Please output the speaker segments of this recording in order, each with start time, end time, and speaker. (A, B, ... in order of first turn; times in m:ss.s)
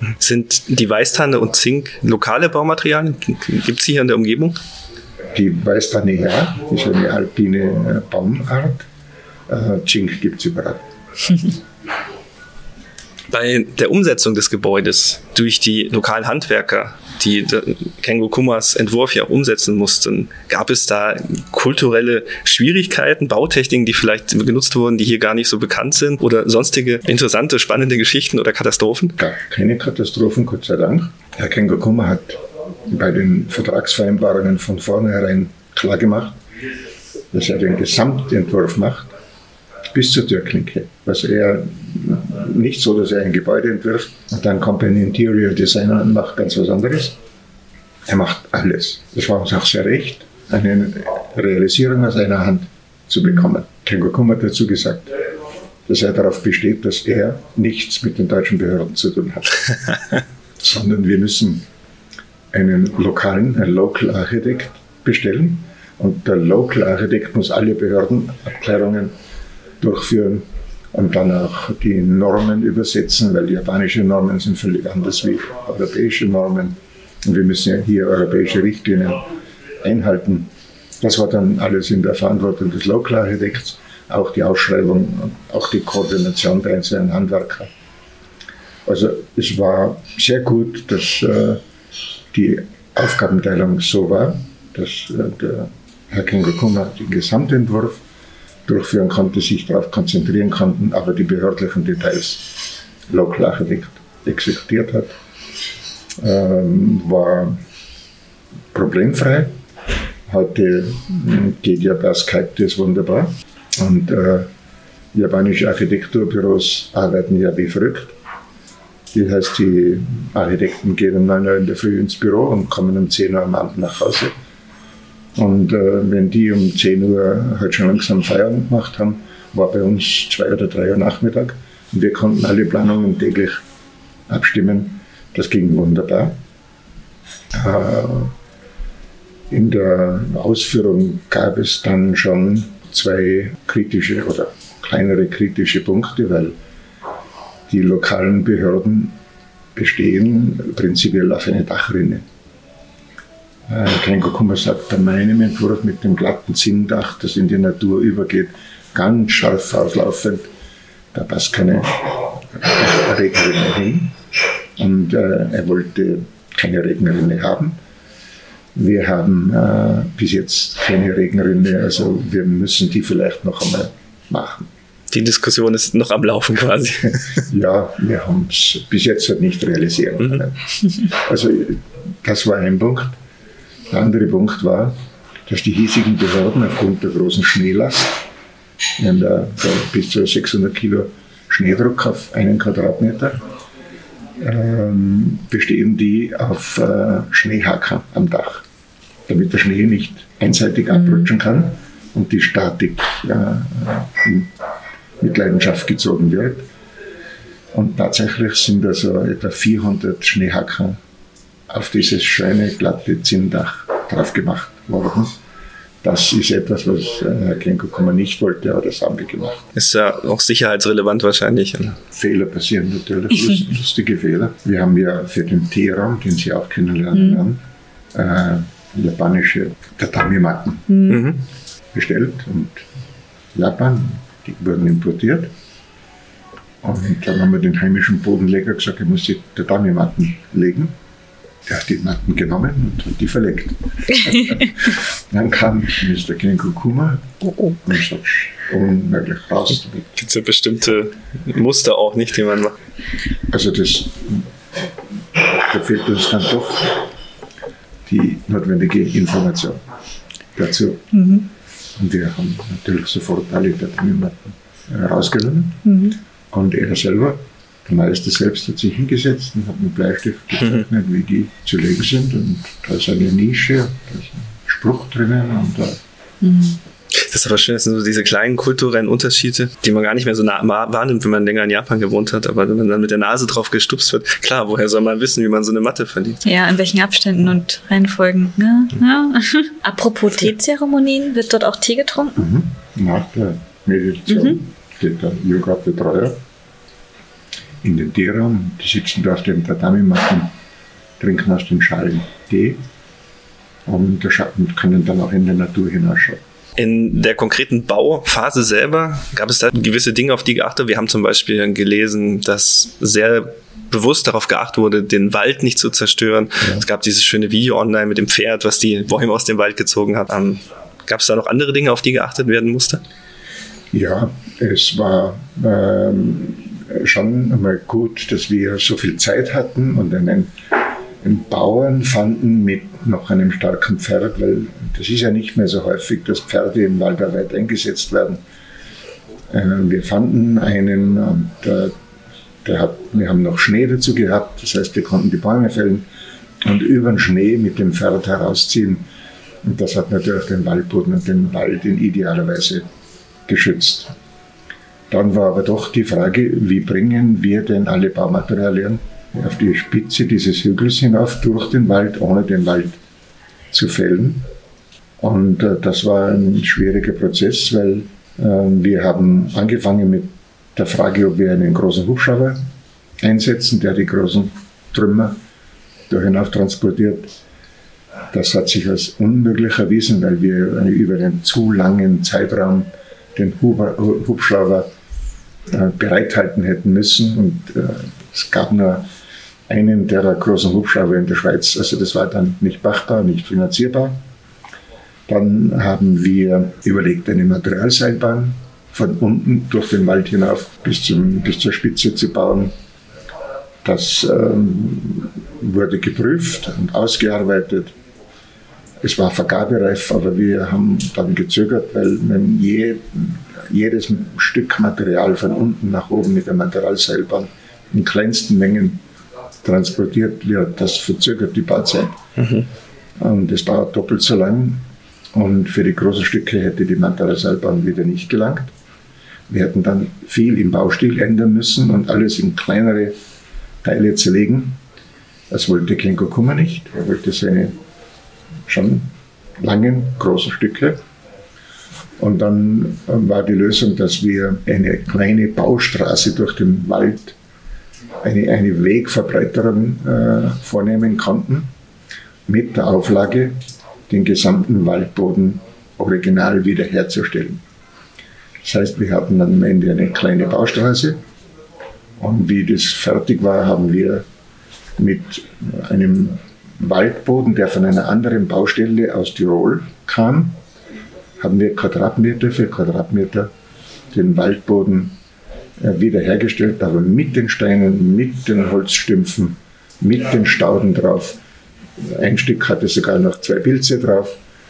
0:00.2-0:04.6 A
0:05.3-0:08.9 B
0:09.5-0:10.8 B
0:13.3-0:29.2 A
0:29.2-0:36.4 B
0:37.3-0:39.1 B
0:39.9-0:47.2 B
0:48.1-0:55.2 B
0:55.9-1:01.6 B
1:02.5-1:09.1 B
1:09.8-1:19.3 B
1:19.8-1:27.7 B
1:28.8-1:31.6 B
1:32.3-1:38.0 B
1:38.6-1:45.1 B
1:46.2-1:47.6 B
1:48.7-1:49.6 B
1:50.3-1:54.5 B
1:55.1-1:58.2 B
1:59.1-2:04.3 B
2:05.3-2:13.6 B
2:14.3-2:16.4 B
2:17.5-2:18.3 B
2:19.5-2:26.6 B
2:27.7-2:29.2 B
2:29.7-2:32.2 B
2:33.7-2:40.5 B
2:41.1-2:44.2 B
2:44.8-2:47.8 B
2:48.7-2:54.7 B
2:55.1-2:57.4 A
2:57.4-3:03.2 B
3:03.9-3:08.2 B
3:09.0-3:13.4 B
3:14.4-3:18.6 B
3:19.3-3:24.5 B
3:21.0-3:21.3 C
3:25.2-3:26.7 B
3:27.7-3:31.0 B
3:31.7-3:35.3 B
3:36.0-3:39.7 B
3:39.7-3:42.0 A
3:42.0-3:47.6 B
3:47.1-3:47.4 C
3:48.1-3:51.0 B
3:50.9-3:51.2 C
3:51.1-3:51.4 A
3:51.9-3:52.8 B
3:53.5-3:55.5 B
3:56.8-4:01.0 B
4:01.7-4:10.2 B
4:10.2-4:12.8 A
4:13.5-4:17.1 B
4:18.0-4:19.8 B
4:20.5-4:21.1 B
4:21.1-4:21.4 C
4:22.0-4:25.8 B
4:25.8-4:26.2 C
4:26.5-4:36.0 B
4:36.4-4:36.8 C
4:37.1-4:46.4 A
4:46.4-4:52.4 C
4:52.4-4:56.4 B
4:54.3-4:54.6 C
4:57.8-5:00.5 B
5:01.2-5:02.8 B
5:03.8-5:06.4 B
5:06.8-5:23.0 A
5:23.9-5:30.5 B
5:31.2-5:38.4 B
5:39.5-5:41.9 B
5:42.6-5:46.0 B
5:46.6-5:49.0 B
5:49.6-5:52.8 B
5:53.5-5:54.1 B
5:55.1-6:03.0 B
6:03.7-6:04.4 B
6:05.2-6:12.6 B
6:13.2-6:15.4 B
6:16.1-6:17.3 B
6:18.3-6:24.9 B
6:25.7-6:29.1 B
6:29.7-6:34.2 B
6:35.3-6:42.7 B
6:43.8-6:47.9 B
6:49.0-6:59.0 B
6:59.6-7:02.2 B
7:02.4-7:02.7 A
7:03.2-7:08.7 B
7:09.5-7:13.2 B
7:13.8-7:14.8 B
7:15.5-7:17.8 B
7:18.7-7:21.0 B
7:22.2-7:27.4 B
7:28.2-7:31.7 B
7:32.5-7:33.5 B
7:34.1-7:37.6 B
7:38.6-7:41.2 B
7:42.2-7:44.2 B
7:45.0-7:50.6 B
7:51.4-7:53.5 B
7:54.1-7:55.2 B
7:55.8-8:01.4 B
8:02.0-8:04.4 B